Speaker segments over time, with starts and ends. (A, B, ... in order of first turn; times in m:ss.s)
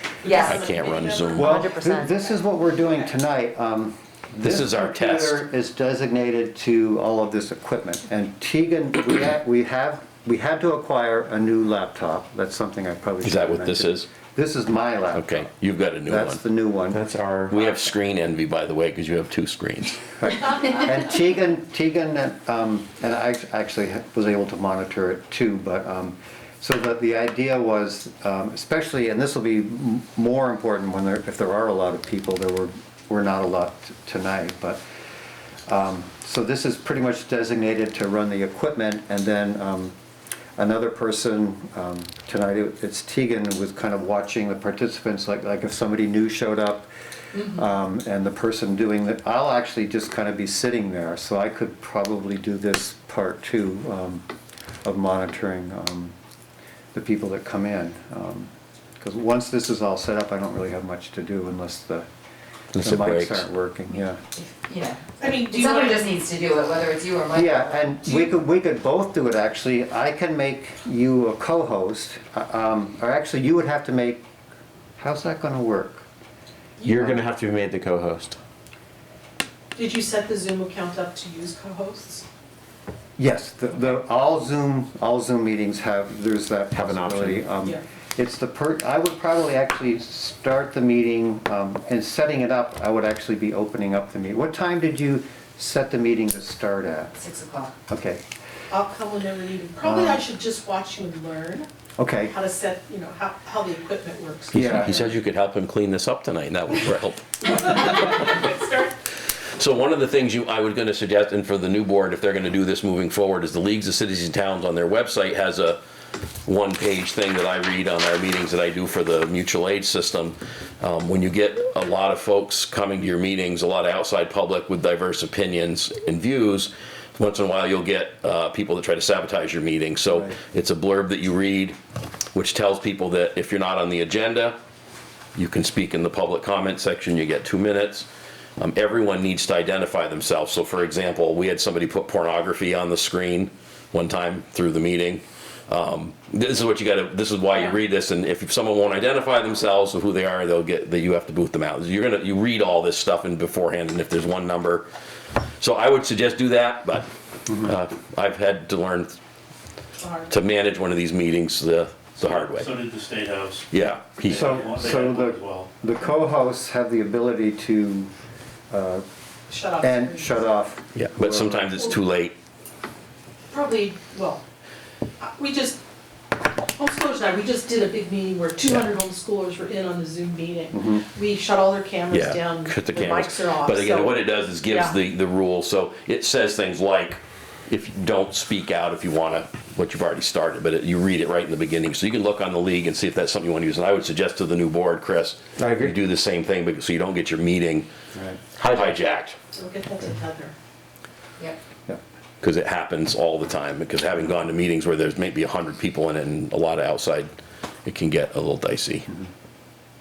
0:00.2-0:01.6 A
0:00.2-0:00.6 B
0:00.4-0:01.5 C
0:01.4-0:02.3 B
0:01.4-0:15.5 D
0:04.4-0:05.4 C
0:13.2-0:14.1 C
0:15.1-0:16.4 C
0:16.0-0:17.1 D
0:16.9-0:17.6 E
0:17.5-0:20.0 C
0:20.2-0:34.8 D
0:35.7-0:39.9 D
0:40.6-0:54.2 D
0:54.8-0:56.1 D
0:56.9-1:02.0 D
1:02.7-1:03.4 C
1:02.8-1:04.2 D
1:04.4-1:08.0 B
1:05.2-1:06.1 A
1:07.3-1:14.2 D
1:15.0-1:16.0 D
1:16.8-1:17.2 D
1:16.8-1:18.4 E
1:19.8-1:22.2 A
1:23.2-1:37.1 D
1:26.7-1:27.4 E
1:37.2-1:37.7 B
1:37.9-1:38.2 D
1:38.7-1:41.7 A
1:39.8-1:40.2 D
1:42.0-1:42.3 D
1:42.3-1:45.1 A
1:44.5-1:45.0 D
1:44.7-1:48.4 C
1:47.5-1:48.9 A
1:49.2-1:55.8 C
1:56.4-2:11.8 C
2:12.3-2:14.6 C
2:15.4-2:18.1 C
2:18.6-2:34.8 C
2:35.6-2:37.1 C
2:37.5-2:37.7 D
2:37.6-2:39.2 C
2:40.0-2:40.4 A
2:40.3-2:42.8 C
2:42.2-2:43.7 F
2:43.7-2:44.6 C
2:44.2-2:48.1 D
2:44.3-2:45.7 F
2:48.7-2:49.0 D
2:49.5-2:50.5 A
2:49.8-2:51.7 D
2:50.9-2:52.3 C
2:53.5-2:54.4 A
2:55.2-2:55.8 A
2:56.8-3:04.9 A
3:00.7-3:01.0 D
3:02.1-3:17.9 C
3:15.6-3:16.0 E
3:18.1-3:18.4 D
3:18.6-3:19.0 E
3:18.6-3:19.4 C
3:19.5-3:20.5 A
3:22.4-3:27.3 C
3:27.8-3:29.1 C